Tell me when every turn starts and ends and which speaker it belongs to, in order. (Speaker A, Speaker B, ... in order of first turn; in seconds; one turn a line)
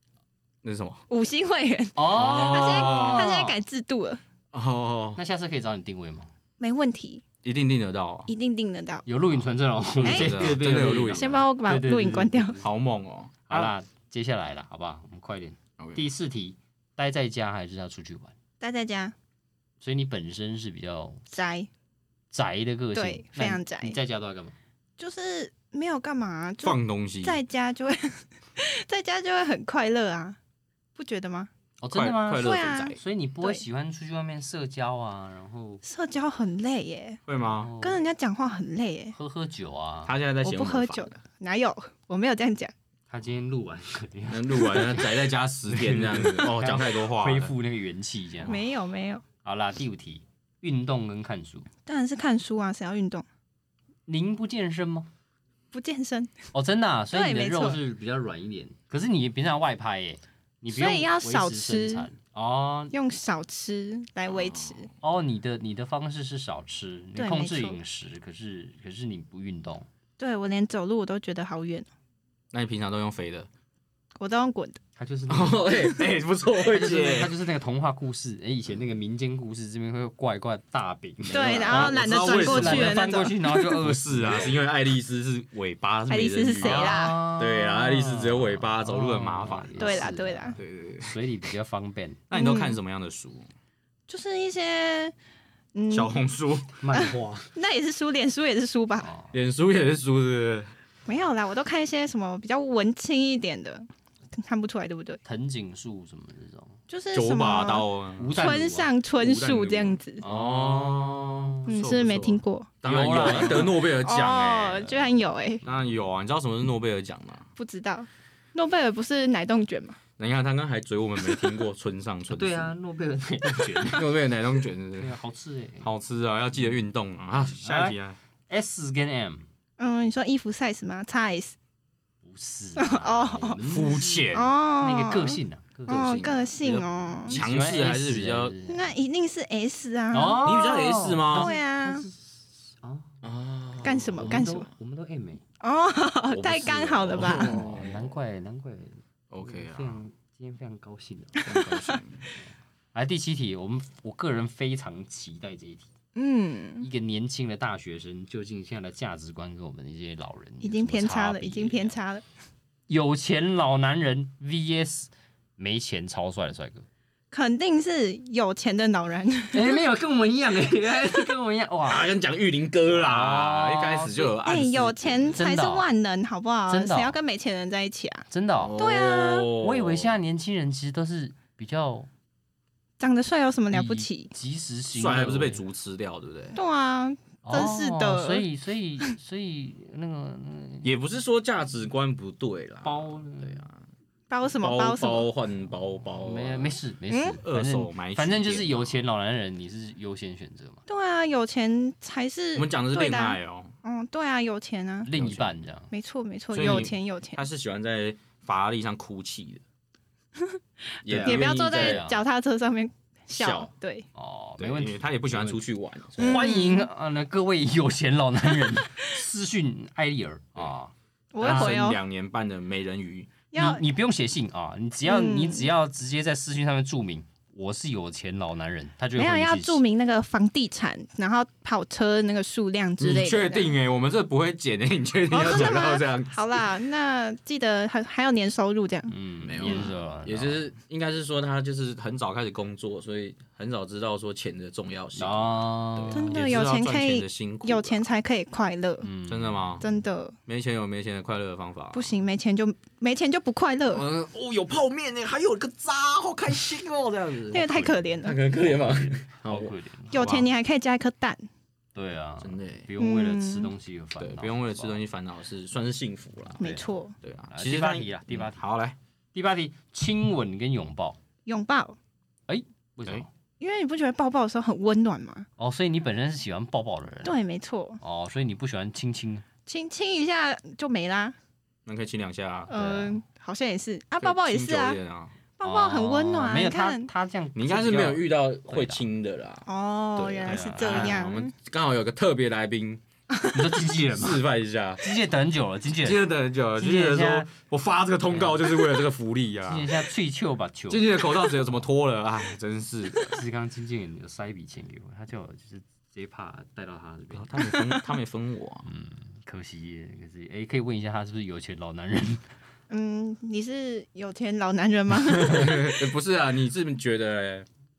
Speaker A: 0.6-1.0
Speaker B: 1.1-4.2
Speaker C: 2.0-3.6
Speaker A: 2.1-3.3
Speaker A: 4.5-5.2
Speaker C: 5.2-6.3
Speaker B: 6.6-7.2
Speaker A: 7.4-8.3
Speaker B: 8.3-9.1
Speaker C: 9.1-12.7
Speaker A: 10.0-11.4
Speaker B: 10.0-12.6
Speaker A: 12.6-13.7
Speaker C: 13.5-18.3
Speaker A: 15.8-16.0
Speaker B: 18.6-19.1
Speaker C: 19.8-21.2
Speaker B: 21.3-21.7
Speaker C: 22.3-24.6
Speaker B: 22.9-24.0
Speaker B: 25.0-30.4
Speaker A: 26.6-27.4
Speaker B: 31.0-31.5
Speaker C: 31.8-35.8
Speaker A: 31.9-33.0
Speaker B: 32.3-33.6
Speaker B: 35.8-37.2
Speaker A: 37.3-37.7
Speaker C: 37.4-38.0
Speaker B: 37.8-39.1
Speaker C: 39.1-40.1
Speaker A: 40.1-41.1
Speaker B: 40.4-42.7
Speaker C: 43.1-45.2
Speaker A: 44.3-47.5
Speaker C: 45.7-48.6
Speaker B: 48.4-49.2
Speaker C: 49.4-51.7
Speaker B: 51.9-53.2
Speaker C: 54.1-55.1
Speaker B: 55.7-56.4
Speaker C: 56.5-62.9
Speaker B: 57.1-57.8
Speaker B: 60.7-62.1
Speaker B: 62.9-64.9
Speaker A: 64.3-64.8
Speaker C: 65.0-69.9
Speaker B: 67.2-67.8
Speaker B: 70.2-71.9
Speaker A: 72.5-73.5
Speaker B: 74.2-74.8
Speaker C: 75.0-76.0
Speaker A: 75.3-77.3
Speaker C: 76.6-84.6
Speaker A: 81.3-83.1
Speaker B: 81.3-83.8
Speaker A: 83.8-91.2
Speaker B: 86.1-87.2
Speaker C: 86.6-92.2
Speaker B: 89.8-90.6
Speaker A: 92.3-93.5
Speaker B: 92.3-92.8
Speaker B: 94.1-95.2
Speaker B: 95.7-96.2
Speaker A: 95.9-96.8
Speaker C: 96.8-97.5
Speaker B: 96.9-99.1
Speaker C: 99.0-99.3
Speaker A: 99.3-100.7
Speaker B: 101.1-105.2
Speaker C: 105.2-106.8
Speaker B: 106.9-110.2
Speaker A: 107.1-108.6
Speaker C: 108.2-108.9
Speaker A: 109.2-114.9
Speaker C: 110.2-111.7
Speaker B: 111.7-115.6
Speaker C: 112.8-113.8
Speaker A: 115.6-117.5
Speaker B: 117.6-120.0
Speaker A: 120.2-122.8
Speaker C: 122.3-124.1
Speaker A: 123.5-125.2
Speaker C: 125.0-125.9
Speaker A: 125.8-128.2
Speaker C: 127.6-128.0
Speaker C: 128.5-129.4
Speaker B: 129.8-131.6
Speaker C: 132.2-136.2
Speaker B: 132.8-133.6
Speaker A: 133.6-134.5
Speaker B: 134.3-137.4
Speaker A: 135.9-138.6
Speaker C: 137.3-138.9
Speaker B: 138.7-142.1
Speaker C: 140.1-143.1
Speaker A: 140.4-141.5
Speaker A: 143.2-144.5
Speaker B: 143.8-144.7
Speaker C: 144.2-145.4
Speaker B: 145.6-147.6
Speaker A: 146.3-148.1
Speaker C: 147.2-151.5
Speaker A: 149.3-150.0
Speaker A: 151.4-152.3
Speaker B: 151.5-152.0
Speaker C: 152.9-155.9
Speaker B: 156.2-156.9
Speaker C: 156.8-162.0
Speaker B: 160.6-162.2
Speaker C: 162.9-166.9
Speaker B: 167.3-169.8
Speaker C: 169.5-172.1
Speaker A: 171.9-175.4
Speaker C: 172.9-174.4
Speaker B: 174.4-179.5
Speaker C: 175.3-175.9
Speaker C: 176.7-177.2
Speaker C: 178.3-178.8
Speaker A: 178.6-180.2
Speaker C: 179.5-182.1
Speaker B: 183.0-184.3
Speaker C: 183.7-185.6
Speaker A: 184.9-186.6
Speaker B: 186.5-188.5
Speaker C: 187.4-190.9
Speaker A: 190.8-193.8
Speaker C: 192.8-193.7
Speaker B: 194.3-195.3
Speaker A: 194.6-196.8
Speaker C: 196.2-200.8
Speaker B: 197.1-197.4
Speaker A: 197.4-198.9
Speaker B: 200.9-205.1
Speaker A: 202.6-203.8
Speaker C: 205.1-205.9
Speaker A: 205.2-205.5
Speaker B: 205.9-207.4
Speaker A: 206.5-209.6
Speaker C: 206.6-206.9
Speaker A: 211.1-212.0
Speaker B: 211.1-214.1
Speaker C: 211.1-212.2
Speaker A: 213.3-213.7
Speaker C: 214.2-215.6
Speaker A: 214.6-216.4
Speaker C: 216.2-221.8
Speaker B: 216.2-216.9
Speaker B: 218.7-219.1
Speaker B: 221.3-222.0
Speaker A: 221.4-223.3
Speaker B: 223.5-223.8
Speaker C: 223.6-229.8
Speaker B: 225.1-225.7
Speaker B: 229.2-233.8
Speaker A: 233.0-236.7
Speaker B: 235.3-239.1
Speaker C: 239.1-240.7
Speaker A: 239.4-248.1
Speaker C: 245.2-246.5
Speaker B: 246.1-249.1
Speaker C: 249.0-249.8
Speaker A: 249.3-249.8
Speaker B: 249.8-250.4
Speaker A: 250.5-252.1
Speaker B: 251.9-254.1
Speaker A: 253.9-260.4
Speaker B: 257.5-258.4
Speaker C: 257.5-258.1
Speaker C: 258.7-260.4
Speaker B: 260.1-261.4
Speaker C: 261.9-265.0
Speaker A: 262.4-262.9
Speaker B: 263.0-263.7
Speaker A: 264.2-266.6
Speaker B: 266.6-267.1
Speaker C: 266.6-266.9
Speaker A: 267.2-269.0
Speaker C: 267.5-268.6
Speaker C: 269.3-271.2
Speaker B: 271.5-272.0
Speaker C: 272.5-273.3
Speaker B: 273.6-275.5
Speaker C: 275.6-277.4
Speaker B: 277.2-278.0
Speaker C: 278.0-279.5
Speaker B: 279.7-281.4
Speaker A: 281.9-282.7
Speaker B: 282.7-285.0
Speaker C: 282.7-283.2
Speaker A: 284.2-285.4
Speaker B: 285.6-287.1
Speaker C: 285.6-289.0
Speaker A: 287.6-293.0
Speaker B: 289.7-291.5
Speaker C: 290.5-291.2
Speaker C: 293.5-294.4
Speaker A: 294.1-295.2
Speaker C: 295.0-297.5
Speaker A: 296.0-299.9
Speaker C: 298.3-298.9
Speaker C: 299.7-301.7
Speaker A: 300.9-303.4
Speaker C: 303.3-307.7
Speaker A: 307.3-308.9
Speaker B: 307.6-308.0
Speaker C: 308.9-312.4
Speaker B: 312.9-316.0
Speaker A: 315.4-317.7